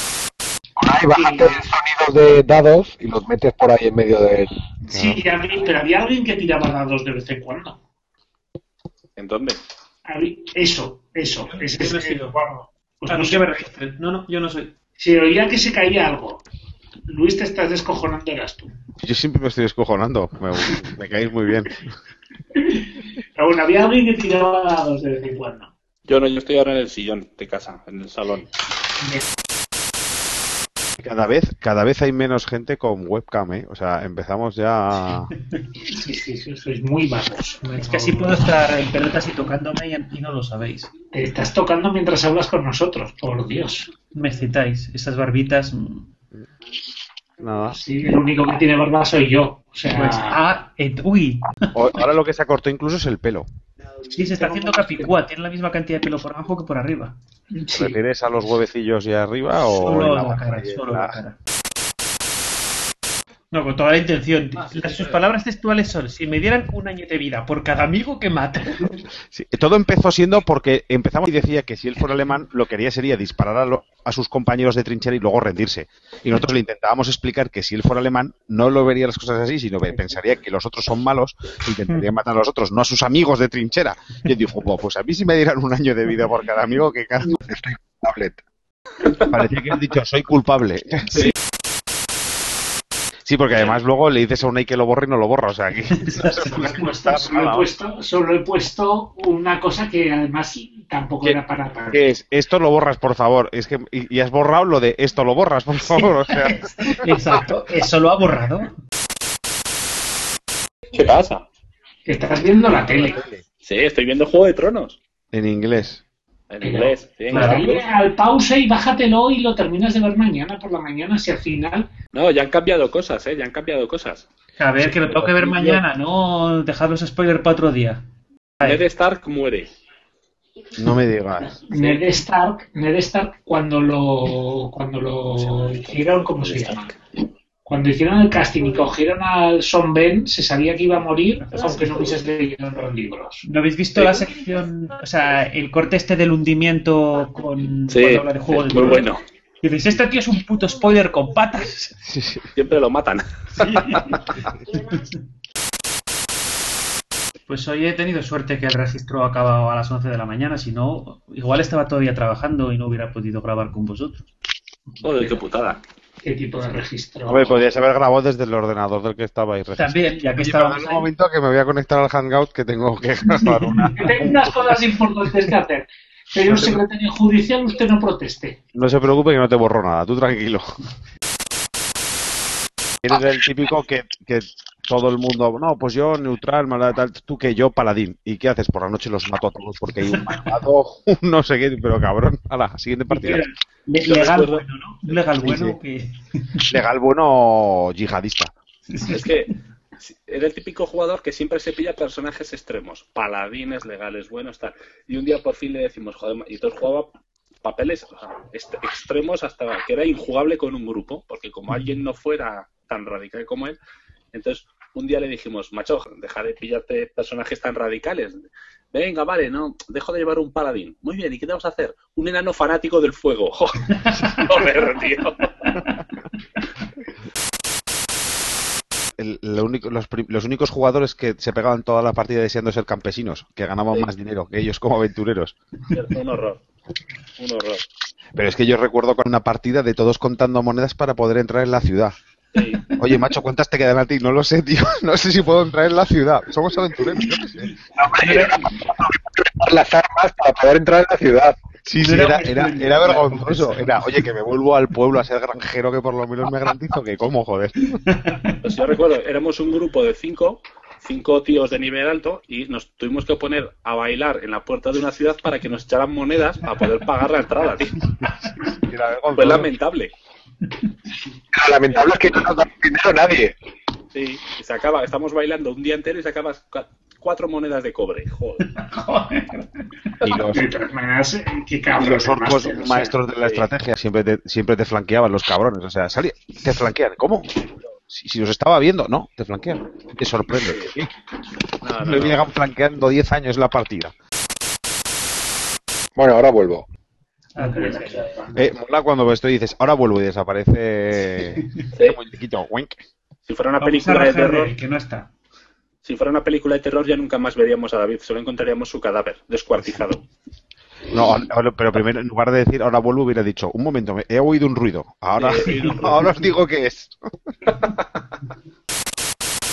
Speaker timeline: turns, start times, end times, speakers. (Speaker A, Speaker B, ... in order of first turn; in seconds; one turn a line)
Speaker A: 0.8-4.5
Speaker B: 1.1-1.6
Speaker B: 4.9-7.8
Speaker C: 4.9-5.2
Speaker D: 9.2-9.6
Speaker B: 10.1-13.4
Speaker E: 11.5-12.3
Speaker E: 13.1-14.7
Speaker B: 15.0-16.4
Speaker B: 17.1-18.7
Speaker C: 19.0-21.8
Speaker B: 22.6-22.8
Speaker B: 23.3-25.7
Speaker D: 26.1-28.5
Speaker C: 31.0-35.3
Speaker B: 35.9-38.4
Speaker E: 37.6-40.9
Speaker B: 41.1-43.9
Speaker E: 44.1-46.1
Speaker C: 47.4-47.8
Speaker B: 47.7-50.4
Speaker E: 49.9-51.5
Speaker C: 51.7-53.5
Speaker E: 54.1-57.1
Speaker B: 54.4-55.1
Speaker B: 57.5-58.0
Speaker C: 57.7-61.2
Speaker E: 59.5-61.4
Speaker E: 63.5-69.0
Speaker D: 64.5-65.2
Speaker C: 69.3-87.4
Speaker A: 87.5-88.4
Speaker C: 89.1-91.3
Speaker C: 93.2-97.7
Speaker D: 93.5-93.8
Speaker E: 96.0-96.8
Speaker B: 96.7-102.0
Speaker C: 101.9-107.0
Speaker E: 106.8-108.7
Speaker D: 110.9-111.4
Speaker B: 112.0-113.2
Speaker D: 113.6-115.0
Speaker C: 115.3-116.0
Speaker D: 116.5-117.8
Speaker B: 116.6-121.9
Speaker E: 117.3-117.7
Speaker D: 122.1-124.3
Speaker E: 124.6-128.0
Speaker D: 124.8-125.8
Speaker D: 128.6-129.7
Speaker C: 130.8-131.6
Speaker B: 131.7-136.9
Speaker D: 131.7-132.0
Speaker D: 135.3-137.0
Speaker B: 137.7-143.4
Speaker E: 141.4-142.0
Speaker E: 143.4-149.1
Speaker D: 143.9-144.2
Speaker D: 147.9-149.2
Speaker E: 149.6-151.9
Speaker C: 152.0-152.5
Speaker D: 152.5-154.0
Speaker E: 153.5-155.0
Speaker E: 157.5-164.2
Speaker D: 165.0-165.8
Speaker B: 166.2-167.6
Speaker C: 167.3-174.7
Speaker E: 169.8-171.1
Speaker B: 174.0-178.6
Speaker C: 176.5-176.8
Speaker C: 178.7-180.7
Speaker C: 183.0-193.4
Speaker E: 190.2-190.5
Speaker E: 193.1-196.7
Speaker D: 193.2-193.5
Speaker D: 194.0-195.2
Speaker C: 196.7-198.5
Speaker E: 198.9-199.3
Speaker D: 199.1-207.1
Speaker D: 207.6-213.8
Speaker D: 214.3-218.4
Speaker D: 218.9-225.4
Speaker E: 224.0-224.4
Speaker E: 225.6-225.9
Speaker C: 229.2-235.5
Speaker D: 235.9-236.6
Speaker D: 237.4-237.8
Speaker C: 238.3-242.1
Speaker D: 242.5-242.8
Speaker C: 243.0-247.7
Speaker A: 247.9-251.7
Speaker E: 248.2-248.7
Speaker C: 251.8-258.0
Speaker E: 252.0-254.1
Speaker E: 258.1-258.5
Speaker D: 258.6-268.0
Speaker C: 268.8-269.7
Speaker D: 269.4-270.1
Speaker A: 271.5-273.5
Speaker D: 274.1-278.6
Speaker E: 278.6-279.8
Speaker C: 280.2-280.7
Speaker B: 280.5-283.1
Speaker C: 282.0-287.5
Speaker D: 283.4-283.7
Speaker C: 288.1-291.1
Speaker D: 290.5-290.9
Speaker D: 291.8-292.5
Speaker C: 292.0-294.1
Speaker A: 296.1-296.9
Speaker E: 297.5-298.2
Speaker B: 297.6-298.6
Speaker C: 298.5-303.0
Speaker D: 303.4-304.7
Speaker E: 303.8-305.3
Speaker D: 306.0-310.2
Speaker C: 311.1-317.1
Speaker D: 315.4-316.3
Speaker E: 315.6-316.1